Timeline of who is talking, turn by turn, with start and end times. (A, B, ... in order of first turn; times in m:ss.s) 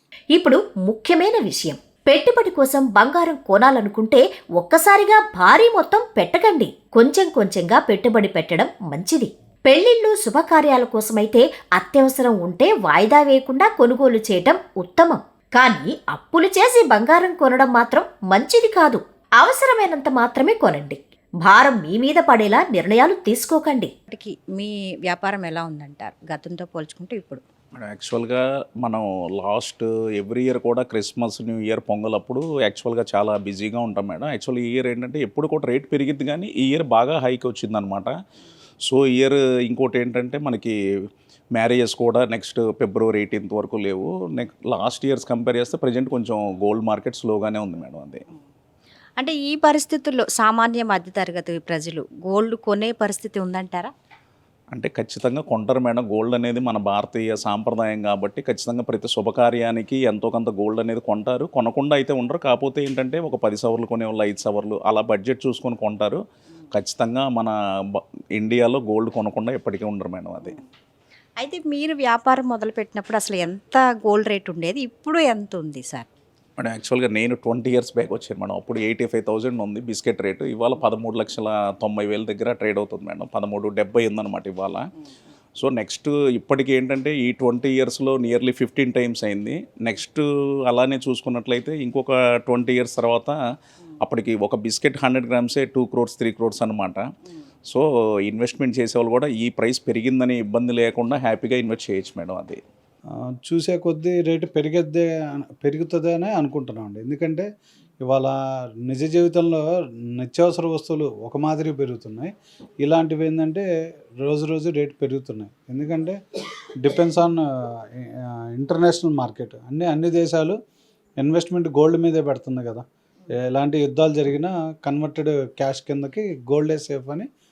0:00.3-0:23.9 A
0:24.1-0:27.4 B
0:27.7-0:38.1 C
0:38.8-0:40.7 C
0:41.5-0:48.2 C
0:49.2-0:53.9 B
0:54.7-1:06.2 C
1:06.7-1:07.5 C
1:08.4-1:10.6 C
1:11.4-1:16.1 B
1:16.6-1:24.9 C
1:25.6-1:33.4 C
1:34.0-1:37.1 C
1:37.7-1:42.6 C
1:43.4-1:45.1 D
1:45.6-1:47.4 D
1:48.0-1:48.3 D
1:48.8-1:49.6 D
1:50.2-1:52.3 D
1:52.8-1:53.6 D
1:54.2-1:56.2 D
1:56.8-1:57.4 D
1:58.6-2:00.6 D
2:01.2-2:02.8 D
2:03.5-2:07.2 D